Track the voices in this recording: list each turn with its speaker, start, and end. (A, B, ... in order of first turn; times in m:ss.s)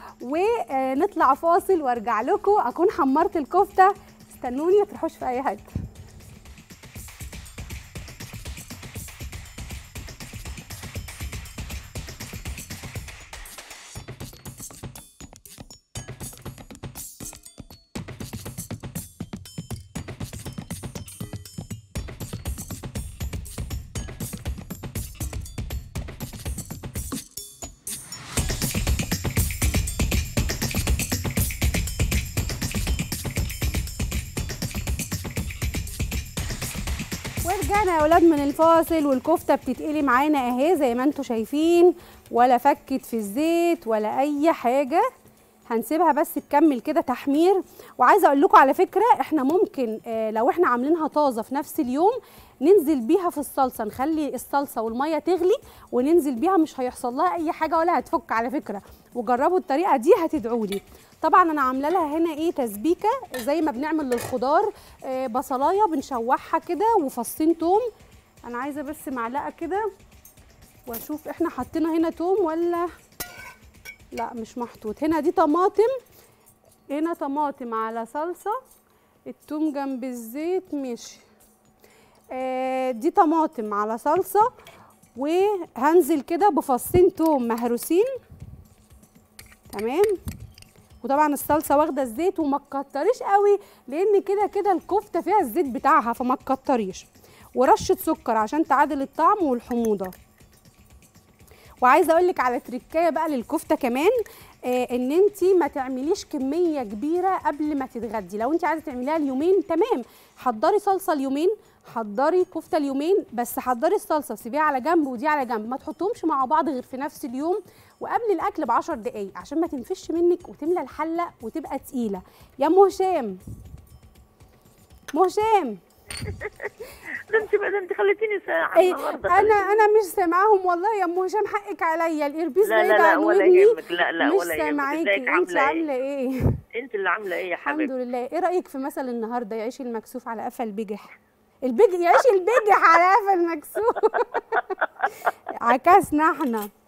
0:00.2-0:05.7 A
0:37.4-0:45.1 A
0:45.7-1:07.9 A
1:08.4-1:09.8 A
1:10.9-1:12.9 A
1:14.1-1:15.9 A
1:16.9-1:18.6 A
1:19.3-1:21.2 A
1:22.3-1:24.5 A
1:25.2-1:28.1 A
1:29.7-1:30.2 A
1:31.0-1:40.2 A
1:41.8-1:44.1 A
1:44.6-2:03.4 A
2:05.1-2:05.8 A
2:06.2-2:06.7 B
2:07.3-2:09.9 B
2:08.7-2:16.6 A
2:12.6-2:15.9 B
2:16.7-2:17.9 B
2:17.6-2:21.1 A
2:21.6-2:24.8 A
2:24.4-2:25.1 B
2:25.5-2:26.7 A